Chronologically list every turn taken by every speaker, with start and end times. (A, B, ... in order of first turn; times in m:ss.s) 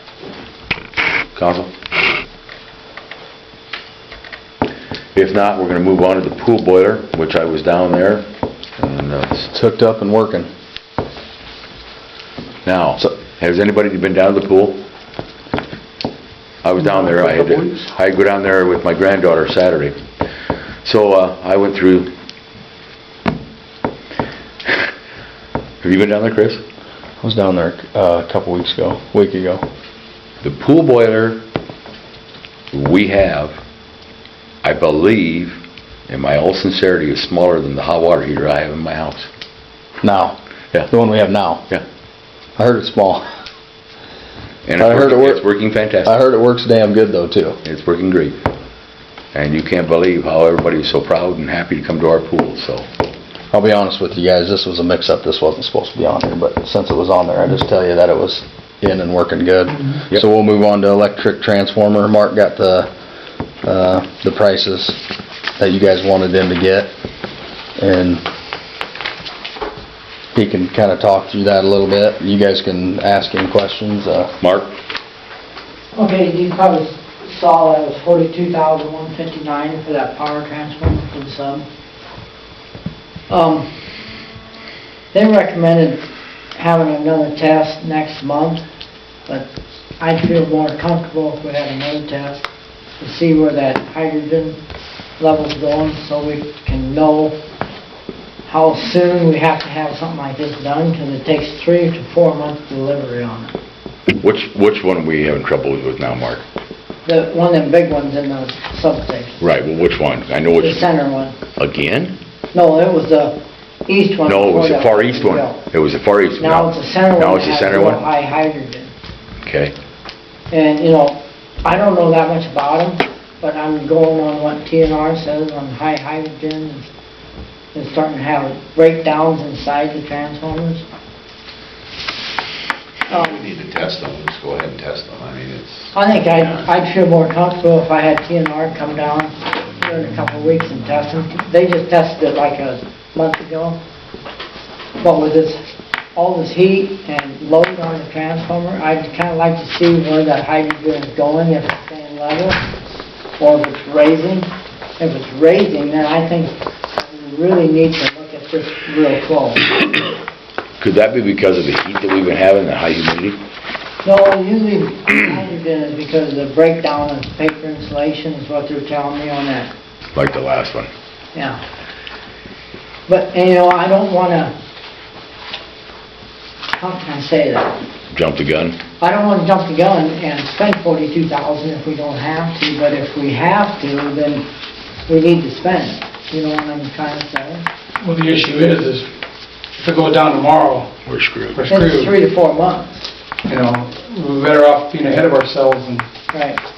0:01.3-0:01.7 A
0:05.1-0:08.2 A
0:08.8-0:09.5 A
0:09.5-0:10.5 B
0:12.6-0:14.8 A
0:16.6-0:20.0 A
0:20.8-0:22.1 A
0:25.8-0:26.6 A
0:27.2-0:29.6 B
0:30.4-0:31.4 A
0:32.7-0:33.6 A
0:34.6-0:39.3 A
0:40.0-0:40.4 B
0:40.9-0:41.7 B
0:42.6-0:43.3 B
0:44.6-0:46.2 A
0:44.8-0:45.4 B
0:46.0-0:47.6 B
0:47.6-0:48.4 A
0:49.3-0:52.9 A
0:53.5-1:02.9 B
1:03.6-1:05.0 B
1:05.6-1:06.9 B
1:07.8-1:08.2 B
1:10.3-1:14.3 B
1:14.4-1:14.7 A
1:15.9-1:21.6 C
1:23.3-1:23.7 C
1:25.1-1:28.6 C
1:29.3-1:32.4 C
1:33.0-1:34.6 C
1:35.2-1:37.4 C
1:38.5-1:43.5 C
1:44.1-1:46.4 A
1:47.0-1:49.4 C
1:49.4-1:50.8 A
1:50.5-1:51.4 C
1:51.6-1:52.1 A
1:52.5-1:55.6 C
1:54.2-1:58.0 A
1:56.4-1:58.9 C
1:59.4-1:59.7 A
2:00.5-2:06.9 C
2:07.7-2:10.8 C
2:13.1-2:16.0 D
2:13.1-2:13.4 C
2:15.9-2:23.8 C
2:25.0-2:32.6 C
2:33.4-2:39.6 C
2:40.8-2:43.4 A
2:44.0-2:49.7 C
2:50.1-2:50.9 A
2:51.3-2:51.6 C
2:53.1-2:54.5 C
2:56.8-2:57.8 C
2:58.1-2:58.8 A
2:59.0-3:04.4 C
3:05.1-3:07.6 C
3:08.0-3:09.1 E
3:09.8-3:11.0 E
3:11.0-3:11.6 A
3:11.5-3:12.1 E
3:11.7-3:13.1 C
3:13.4-3:16.1 E
3:16.3-3:16.6 C